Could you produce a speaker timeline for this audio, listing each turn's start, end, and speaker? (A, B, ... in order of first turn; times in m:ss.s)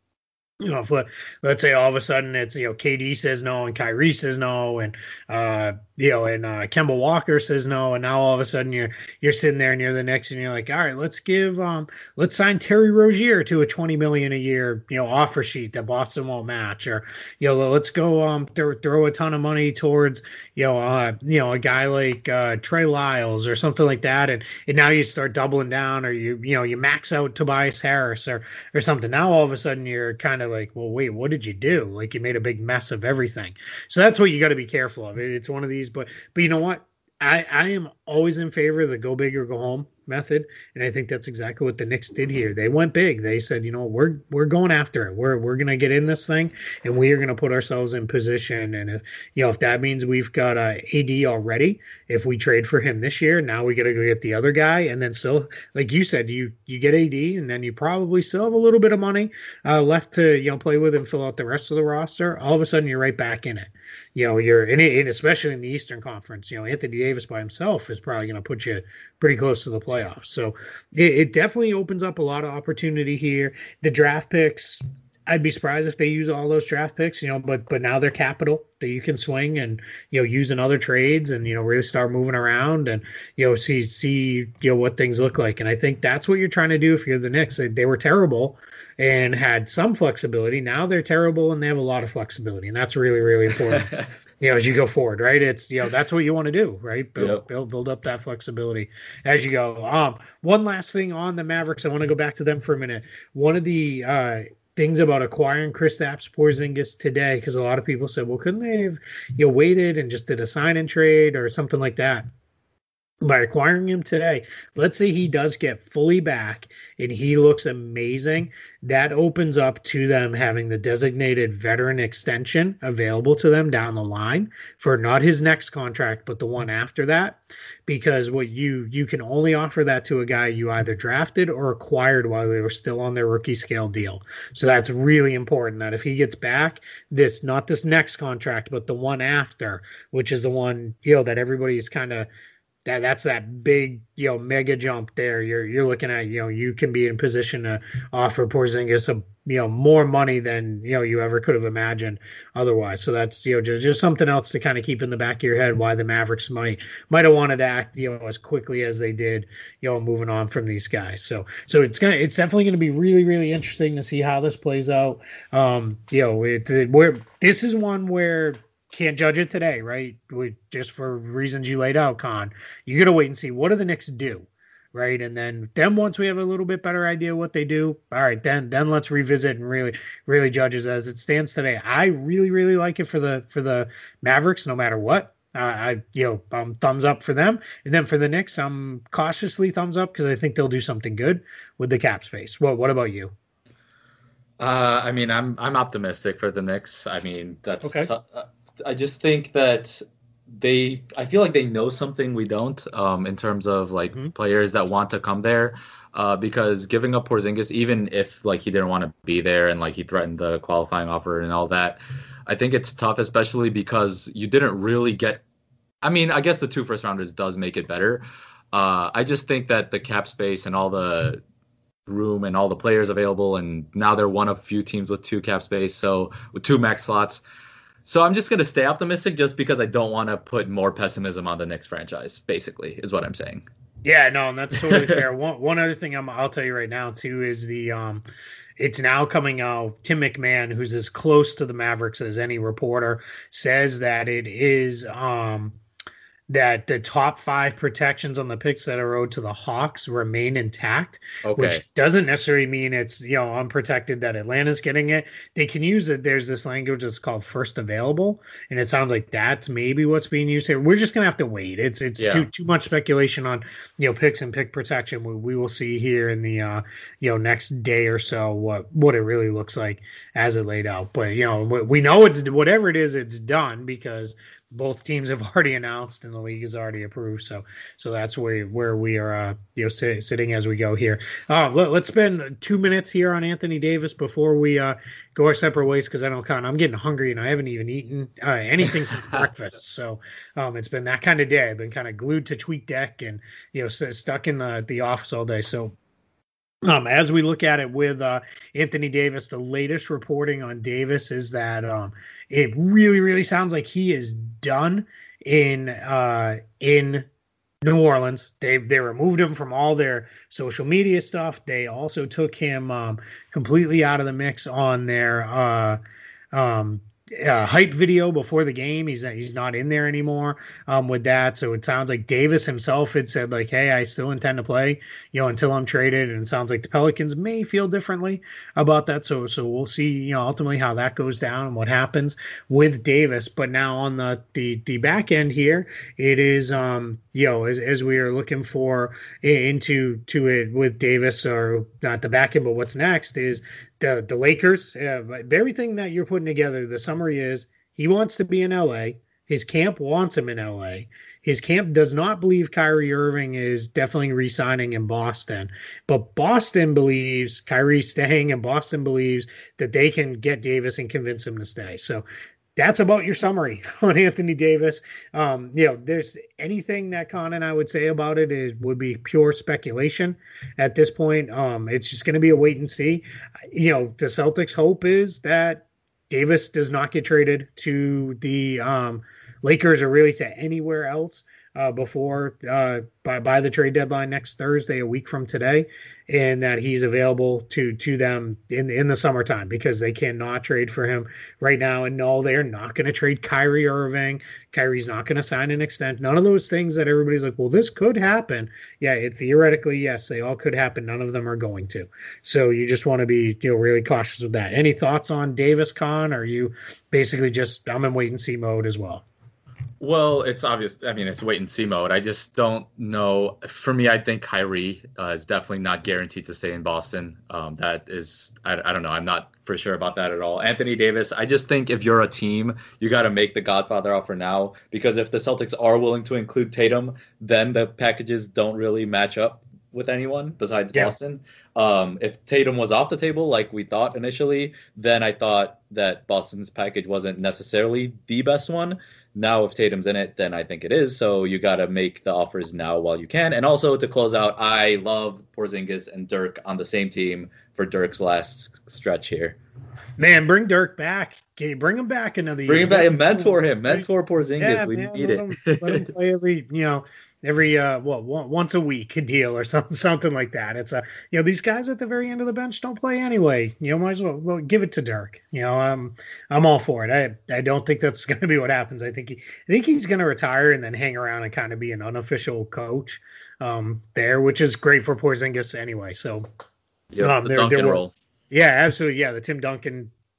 0:00.6-1:33.9 A
1:33.7-1:34.1 B
1:34.4-1:52.2 A
1:37.2-1:37.4 B
1:53.2-2:22.3 A
2:22.8-3:13.3 A
3:14.6-3:35.4 B
3:17.8-3:18.1 A
3:36.0-3:41.4 B
3:42.1-3:47.4 B
3:48.0-3:53.6 B
3:54.0-3:58.2 A
3:54.8-3:55.2 B
3:58.8-4:05.8 A
4:06.5-4:55.9 A
4:11.4-4:11.8 B
4:22.2-4:22.5 B
4:56.8-5:07.2 A
5:07.8-5:16.0 A
5:16.5-6:02.2 A
6:02.8-6:49.2 A
6:50.0-7:29.6 B
7:30.2-7:34.0 A
7:32.7-7:36.0 B
7:34.6-7:56.4 A
7:57.1-7:58.1 B
7:57.2-8:00.1 A